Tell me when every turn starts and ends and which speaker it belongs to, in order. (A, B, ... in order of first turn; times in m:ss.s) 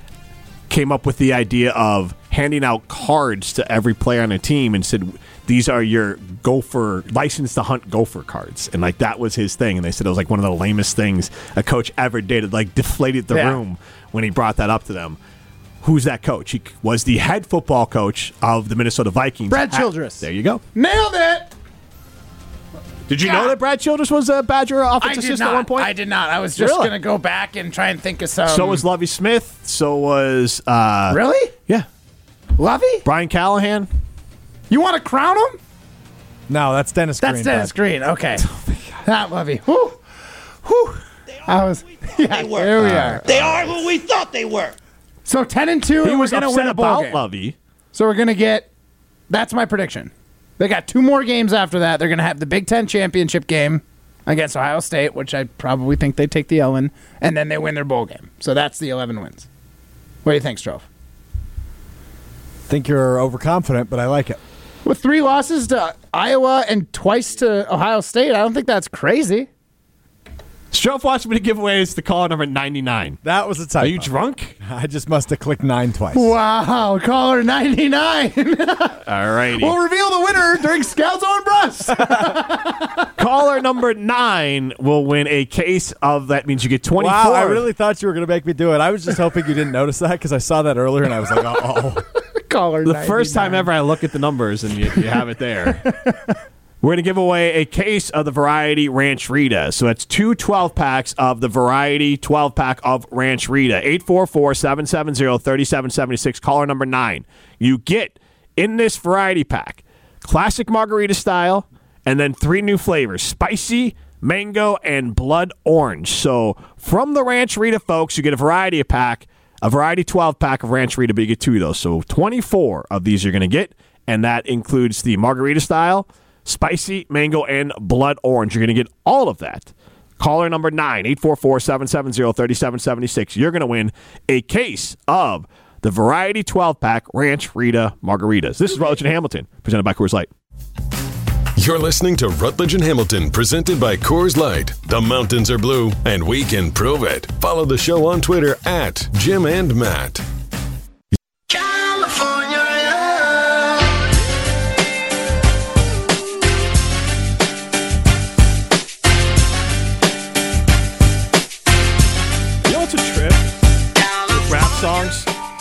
0:00.7-0:15.2 A
0:13.3-0:13.6 B
0:15.8-0:20.6 A
0:19.5-0:21.5 B
0:23.1-0:25.9 A
0:23.2-0:23.5 B
0:25.0-0:28.8 B
0:26.6-0:27.0 A
0:28.4-0:31.9 A
0:31.1-0:31.5 B
0:32.6-0:33.0 B
0:33.0-0:33.9 A
0:34.7-0:35.6 B
0:36.5-0:37.7 C
0:37.2-0:38.4 B
0:39.0-0:40.0 B
0:40.6-0:43.7 B
0:42.8-0:43.7 A
0:43.9-0:44.7 D
0:45.2-0:47.2 B
0:46.0-0:47.5 A
0:47.9-0:48.7 B
0:49.3-0:59.5 B
1:00.2-1:00.8 B
1:02.7-1:04.4 C
1:04.8-1:09.5 B
1:10.7-1:13.2 A
1:13.2-1:16.3 C
1:13.8-1:14.5 A
1:16.1-1:19.0 B
1:19.0-1:19.8 A
1:19.6-1:23.1 B
1:23.2-1:27.6 A
1:27.0-1:32.0 C
1:32.4-1:33.7 B
1:32.8-1:35.8 A
1:35.8-1:36.3 B
1:36.8-2:20.3 A
2:21.5-2:30.2 E
2:31.5-2:33.8 D
2:42.6-2:43.4 A
2:44.5-2:45.3 A